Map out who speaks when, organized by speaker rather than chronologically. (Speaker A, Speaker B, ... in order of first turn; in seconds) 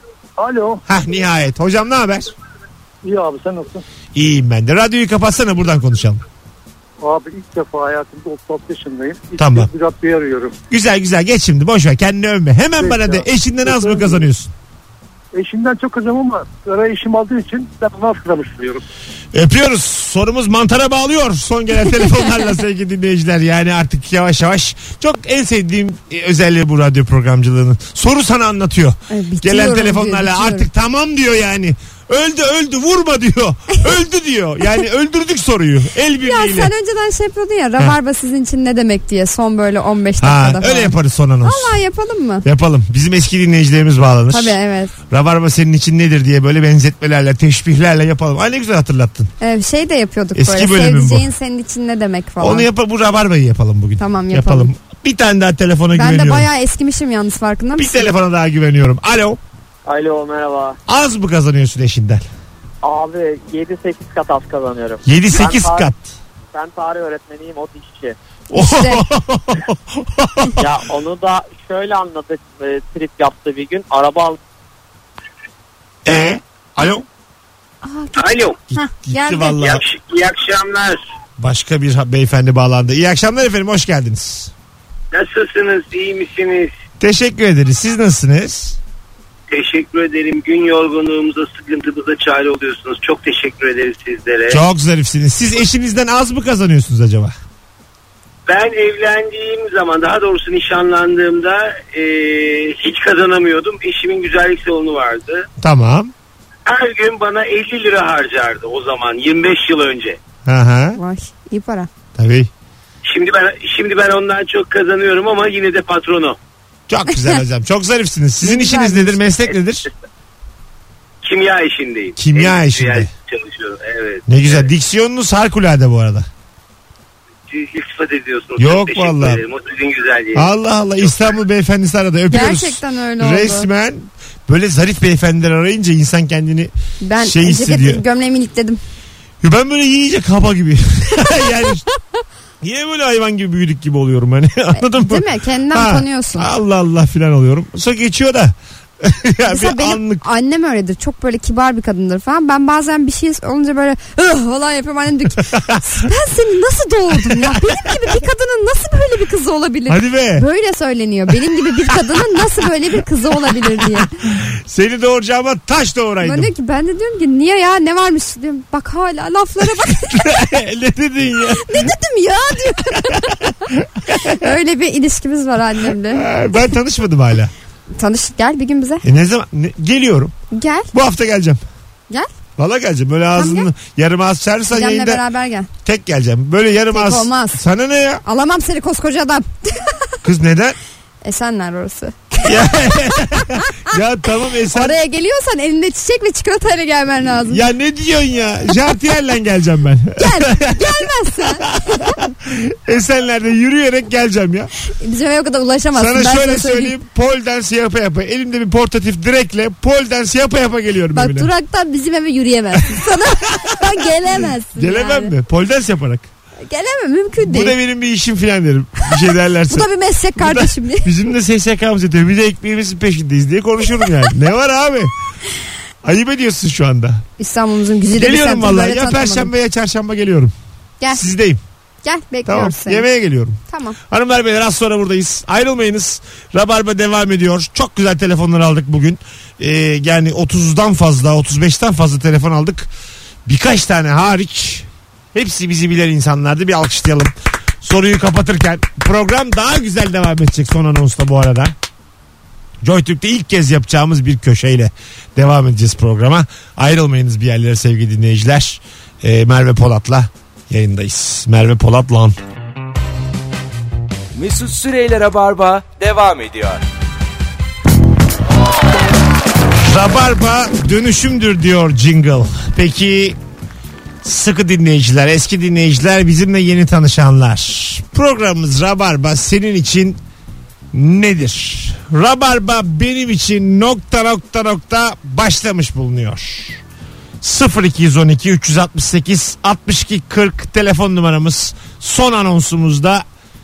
Speaker A: 0.4-0.8, 3.0-3.8, 7.0-10.6, 12.8-14.3, 15.3-18.8
Speaker B: 0.9-2.3, 4.2-6.2, 9.4-9.7, 10.7-14.5, 19.3-36.7, 40.2-41.8, 42.4-44.6, 45.1-49.3, 50.4-51.3, 52.4-56.5, 57.8-59.4, 60.9-62.3, 65.0-66.1, 68.5-70.6, 76.0-77.0, 78.7-79.8, 81.4-84.5, 87.0-88.8, 94.5-97.4, 105.6-106.1, 110.5-111.0, 112.2-112.5, 116.9-119.9, 122.2-123.1, 124.3-126.3, 128.6-129.4, 130.3-138.0, 139.4-141.8, 142.6-150.3, 155.4-155.8, 157.2-157.9, 159.9-160.5, 161.9-162.2, 163.8-166.5, 170.0-171.9, 172.9-174.3, 176.1-177.5, 179.0-180.3, 180.9-181.6, 182.6-185.2, 185.8-188.2, 190.2-190.8, 192.4-195.0, 197.5-204.7, 205.9-211.5, 212.9-214.0, 214.7-216.3, 217.4-225.1, 226.0-227.2, 228.1-230.5, 231.1-231.6, 232.5-233.6, 234.1-242.9, 243.5-251.7, 252.8-262.4, 269.8-273.4, 274.2-280.2, 280.9-286.8, 287.4-293.2
Speaker C: 29.1-30.7, 36.2-42.5, 44.3-44.9, 49.4-52.7, 54.0-54.7, 55.9-58.1, 68.6-69.0, 77.8-79.6, 111.0-111.9, 118.4-119.2, 132.3-133.7, 137.0-138.8, 144.8-146.5, 149.5-164.1, 166.2-170.2, 171.5-173.3, 174.1-176.3, 178.0-179.0, 180.5-180.9, 183.3-183.7, 184.7-185.7, 186.9-187.6, 188.2-190.2, 191.2-192.5, 194.7-197.6, 200.2-202.1, 205.0-207.0, 211.2-215.3, 216.7-217.8, 219.7-221.1, 227.4-229.5, 232.0-233.1, 233.7-234.0
Speaker D: 59.9-60.8, 62.8-65.9, 66.5-68.2, 70.6-74.4
Speaker E: 78.2-78.6, 79.3-81.0, 85.1-86.7, 89.5-94.6, 98.5-105.5, 106.7-110.2, 113.1-116.4, 121.2-124.7, 127.5-130.5
Speaker F: 264.4-266.8